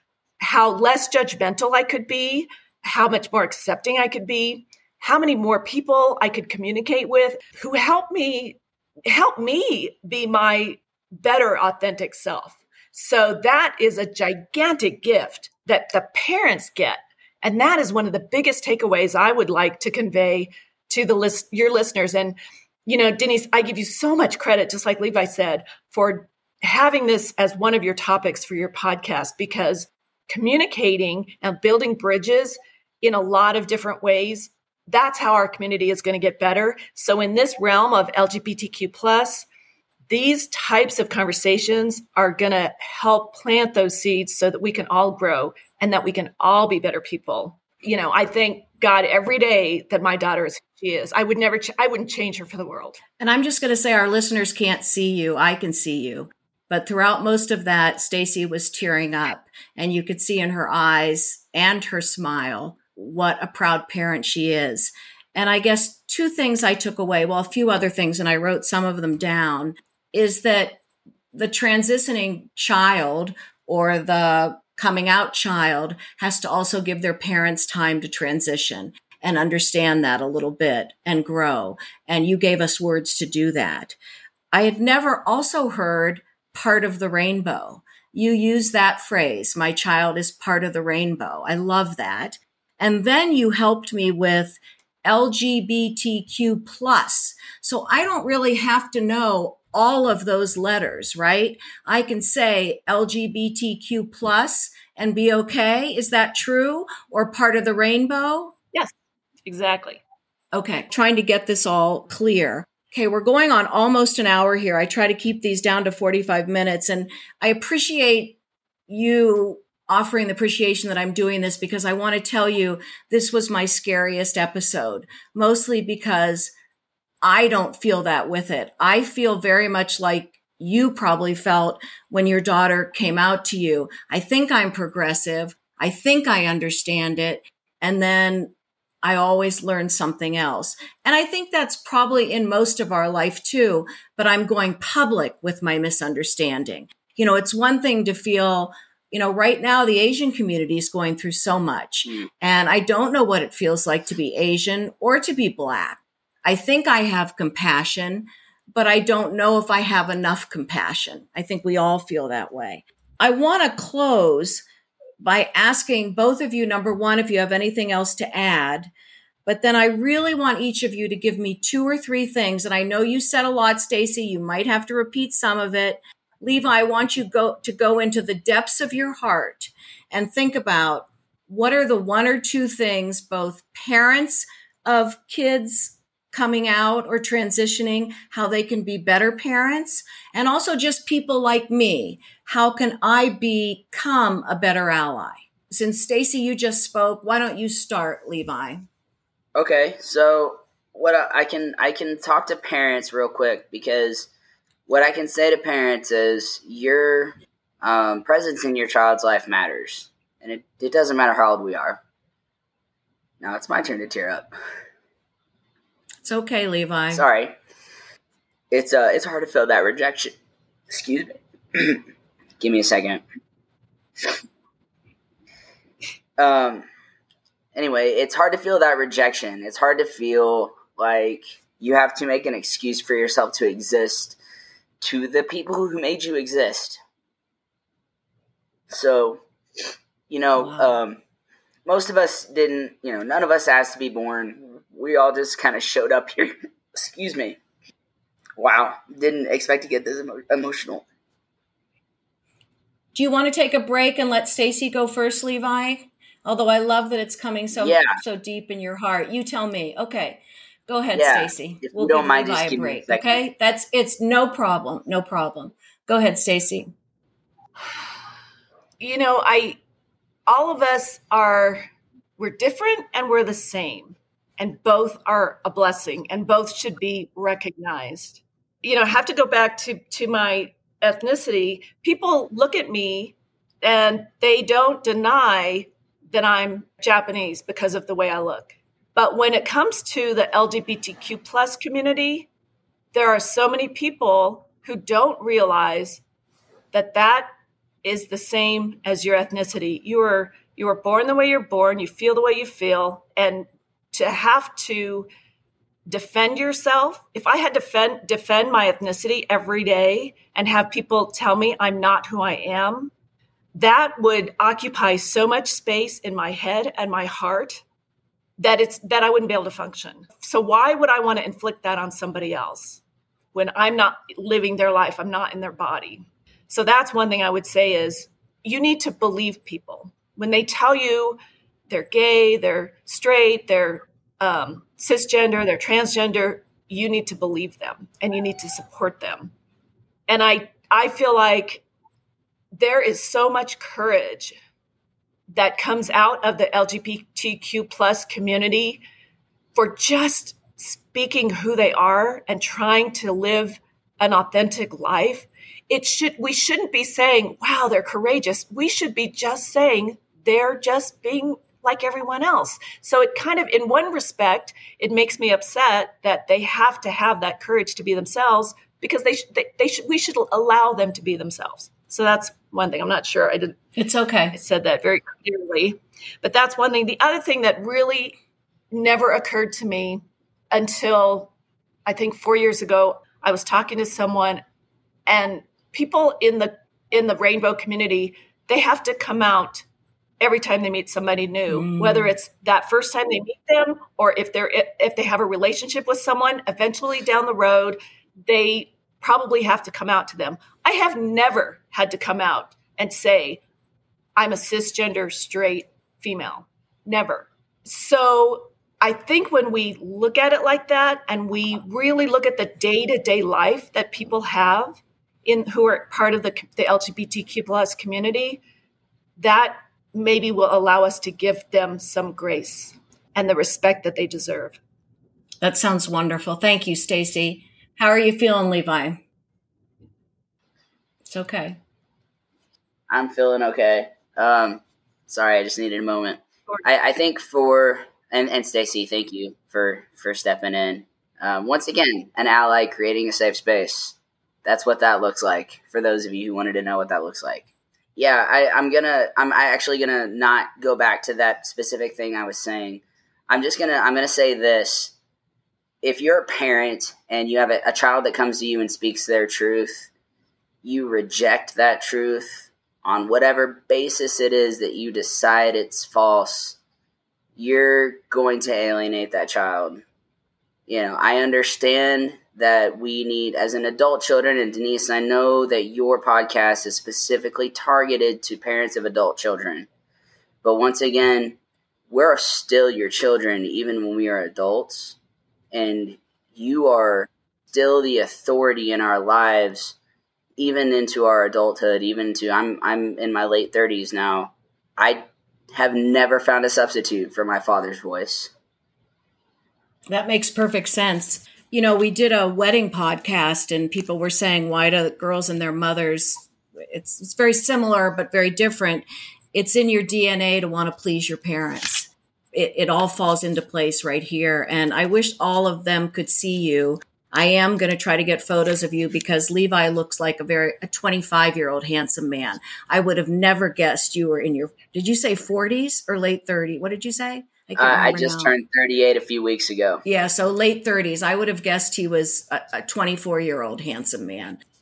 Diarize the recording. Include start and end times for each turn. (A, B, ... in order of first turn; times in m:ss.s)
0:00.4-0:39.5 A
0:40.1-0:53.0 A
0:53.2-1:10.8 B
1:11.3-1:24.0 B
1:24.5-1:48.5 B
1:49.4-1:50.0 A
1:50.5-1:58.4 B
1:58.9-2:06.5 B
2:07.2-2:44.6 B
2:45.2-2:48.9 B
2:49.4-3:18.9 B
3:19.5-3:24.3 C
3:24.9-3:32.0 C
3:33.4-3:34.5 C
3:36.2-3:37.2 B
3:37.1-3:37.6 C
3:38.7-3:40.3 C
3:40.9-3:42.0 C
3:42.6-3:43.2 C
3:46.4-3:46.8 C
3:47.7-3:54.4 C
3:55.0-3:57.0 C
3:58.9-3:59.4 C
4:00.3-4:01.2 C
4:00.6-4:01.0 B
4:01.8-4:07.6 C
4:08.6-4:11.0 C
4:13.1-4:26.9 B
4:17.7-4:18.2 C
4:21.1-4:23.4 C
4:29.0-4:29.8 A
4:30.5-4:31.8 A
4:32.4-4:52.5 A
4:53.1-4:56.2 A
4:56.9-4:57.5 A
4:58.0-5:05.3 A
5:06.0-5:13.1 A
5:13.8-5:17.8 A
5:18.6-5:23.0 A
5:23.5-5:31.4 A
5:31.9-5:39.5 A
5:40.3-5:41.8 A
5:42.8-5:44.6 A
5:45.5-5:49.0 A
5:49.7-6:13.8 A
6:14.0-6:14.6 B
6:14.5-6:18.4 A
6:18.9-6:21.5 A
6:22.0-6:24.6 A
6:25.2-6:29.8 A
6:30.4-6:43.6 A
6:31.7-6:32.3 B
6:44.4-6:58.6 A
6:59.4-7:04.8 A
7:05.6-7:09.2 B
7:11.3-7:11.8 B
7:13.1-7:35.1 C
7:36.0-7:40.1 C
7:40.8-7:46.8 C
7:47.6-7:50.0 C
7:50.9-7:59.9 C
8:00.6-8:01.6 C
8:02.1-8:05.2 C
8:05.7-8:10.0 C
8:10.6-8:18.5 C
8:20.1-8:48.5 B
8:47.8-8:50.0 C
8:50.0-8:54.6 B